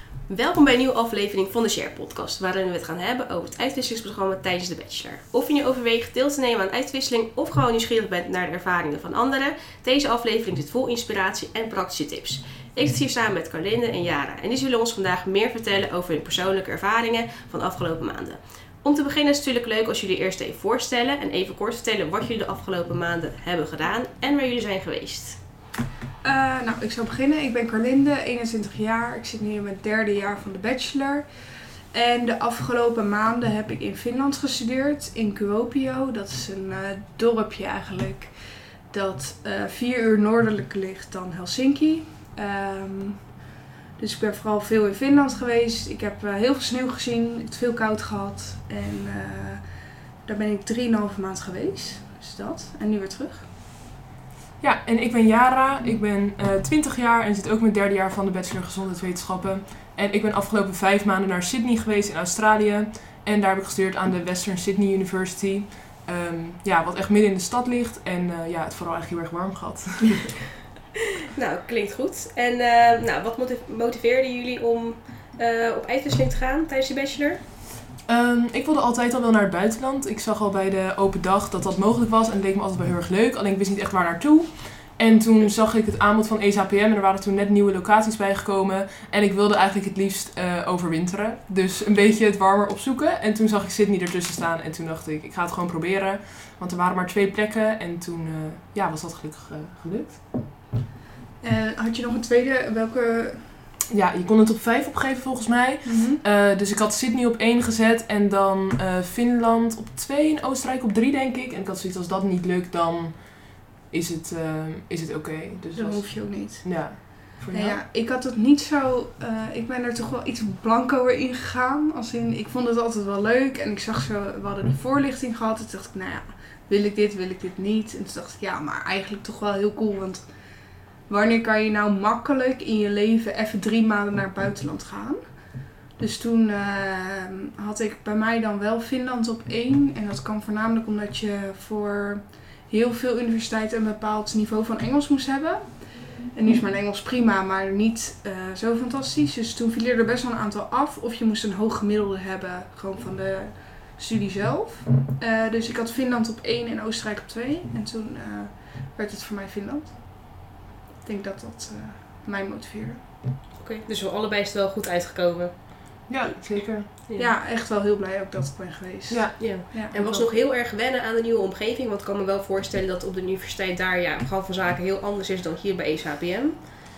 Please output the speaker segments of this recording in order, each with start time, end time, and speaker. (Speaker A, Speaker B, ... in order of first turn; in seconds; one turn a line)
Speaker A: 0.3-25.4
Speaker B: 26.2-43.4
Speaker B: 44.0-53.5
Speaker C: 54.6-70.4
Speaker A: 71.3-77.4
Speaker C: 78.0-100.3
Speaker B: 101.4-103.5
Speaker C: 103.9-117.8
Speaker B: 105.8-106.2
Speaker B: 115.7-163.2
Speaker A: 163.6-165.6
Speaker C: 166.1-166.9
Speaker A: 167.1-167.3
Speaker B: 167.2-169.9
Speaker C: 169.1-170.2
Speaker A: 169.4-176.6